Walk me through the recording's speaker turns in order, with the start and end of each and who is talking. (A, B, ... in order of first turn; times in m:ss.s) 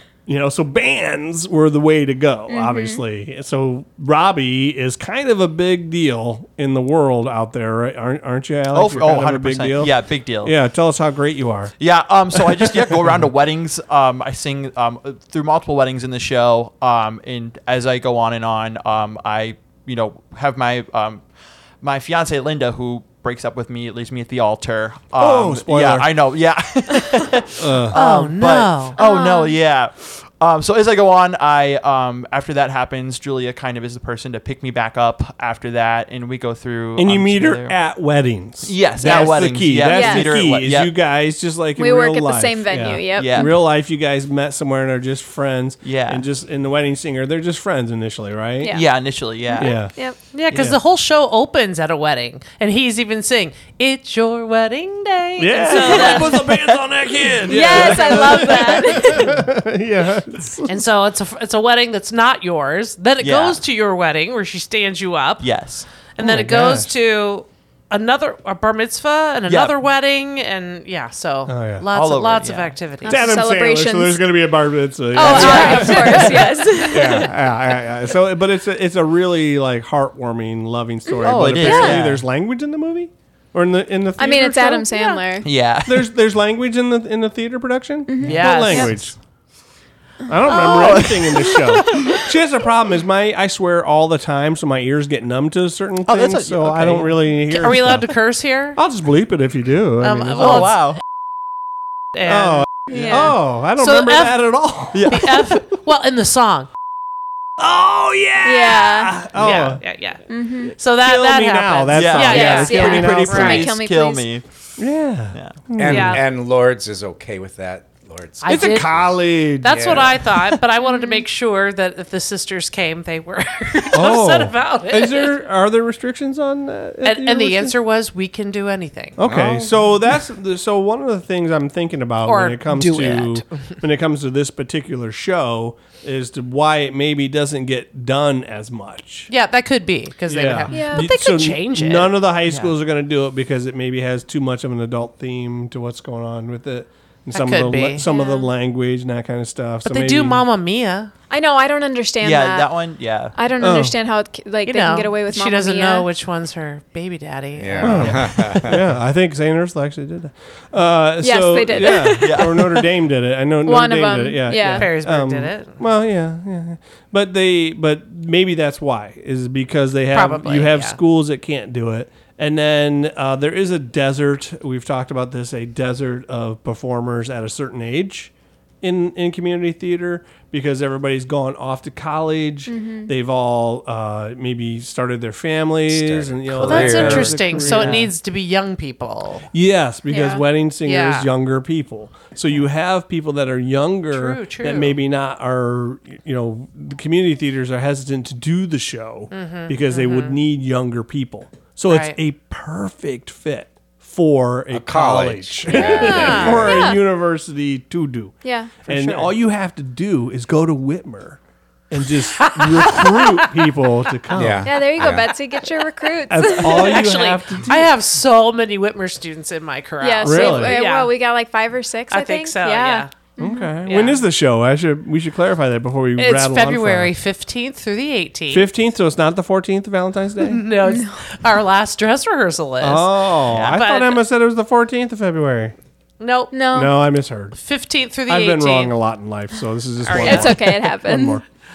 0:00.2-0:11.7 A
0:02.5-0:03.0 B
0:08.7-0:10.6 C
0:11.8-0:21.2 C
0:12.3-0:13.2 A
0:21.8-0:37.8 C
0:25.2-0:26.1 A
0:27.6-0:28.0 A
0:27.9-0:29.0 D
0:29.0-0:29.5 B
0:37.0-0:48.7 A
0:38.6-0:40.9 C
0:39.0-0:40.5 B
0:41.8-0:43.5 B
0:43.1-0:43.5 C
0:45.8-0:46.2 C
0:48.6-0:48.9 B
0:48.7-0:49.8 C
0:49.5-0:50.2 B
0:49.6-0:49.9 A
0:50.3-0:56.4 D
0:50.5-0:50.8 A
0:55.4-1:00.9 A
0:55.7-0:56.4 B
0:56.1-0:56.4 C
0:57.4-0:58.5 C
0:57.5-0:59.4 B
1:00.6-1:05.5 D
1:03.2-1:03.6 C
1:05.4-1:05.8 C
1:06.2-1:13.2 D
1:06.2-1:06.9 A
1:09.5-1:09.7 C
1:11.5-1:11.8 A
1:11.9-1:12.7 C
1:13.0-1:14.2 B
1:13.0-1:24.9 A
1:15.1-1:17.3 B
1:15.2-1:16.6 D
1:15.3-1:16.2 C
1:21.1-1:22.0 B
1:21.2-1:22.2 C
1:24.2-1:25.5 B
1:24.9-1:25.2 D
1:25.4-1:26.1 C
1:25.8-1:29.1 A
1:28.1-1:28.9 B
1:28.2-1:29.1 D
1:30.2-1:38.1 A
1:30.5-1:30.9 D
1:30.5-1:32.0 C
1:36.0-1:37.2 C
1:37.5-1:38.8 D
1:38.7-1:40.7 A
1:40.0-1:40.9 D
1:40.4-1:41.0 C
1:42.1-1:44.5 D
1:42.2-1:45.5 A
1:42.9-1:43.3 B
1:44.9-1:45.5 C
1:45.0-1:46.7 D
1:47.6-1:49.8 A
1:48.4-1:49.2 B
1:49.3-1:53.7 D
1:50.3-1:50.7 B
1:50.7-1:53.7 A
1:51.9-1:54.4 C
1:52.2-1:54.2 B
1:54.8-1:56.2 A
1:55.3-1:55.6 C
1:55.8-1:59.1 E
1:55.8-1:56.2 D
1:58.4-2:05.3 D
1:58.4-2:00.2 A
1:59.7-2:00.2 E
2:00.8-2:01.2 B
2:03.9-2:07.7 A
2:07.0-2:09.2 D
2:09.2-2:19.3 A
2:09.2-2:09.7 E
2:12.2-2:13.4 D
2:19.3-2:22.2 D
2:20.3-2:30.4 A
2:20.7-2:21.1 B
2:22.5-2:22.7 C
2:27.3-2:28.1 D
2:28.0-2:28.5 B
2:29.8-2:31.1 D
2:31.3-2:32.7 B
2:32.2-2:33.4 C
2:33.3-2:36.1 B
2:33.6-2:34.0 A
2:34.6-2:38.3 D
2:37.6-2:38.8 E
2:37.8-2:58.3 A
2:41.2-2:42.5 B
2:42.0-2:42.9 C
2:43.6-2:44.9 B
2:44.7-2:45.8 D
2:50.1-2:51.0 D
2:58.8-3:08.1 A
3:02.7-3:03.1 B
3:05.9-3:07.9 E
3:06.6-3:09.5 D
3:09.5-3:31.4 A
3:10.1-3:10.4 B
3:10.8-3:11.3 D
3:14.1-3:15.0 D
3:19.3-3:20.4 D
3:21.9-3:22.2 D
3:24.7-3:26.9 E
3:25.7-3:26.6 D
3:25.9-3:27.0 B
3:28.4-3:29.0 B
3:31.9-3:34.8 A
3:32.4-3:33.5 D
3:34.3-3:35.4 E
3:34.6-3:37.0 B
3:36.3-3:37.9 A
3:36.6-3:41.1 D
3:40.0-3:43.7 B
3:40.2-3:40.8 A
3:42.1-3:43.1 D
3:43.4-3:47.1 A
3:43.8-3:44.2 D
3:46.2-3:48.7 D
3:48.5-3:50.6 A
3:50.4-3:54.2 D
3:50.8-3:51.2 B
3:52.8-3:55.7 A
3:53.5-3:53.8 C
3:56.2-3:56.5 D
3:56.5-3:56.9 B
3:56.7-3:57.6 A
3:57.5-3:58.9 D
3:58.3-4:01.4 A
4:00.0-4:00.7 D
4:00.1-4:01.4 B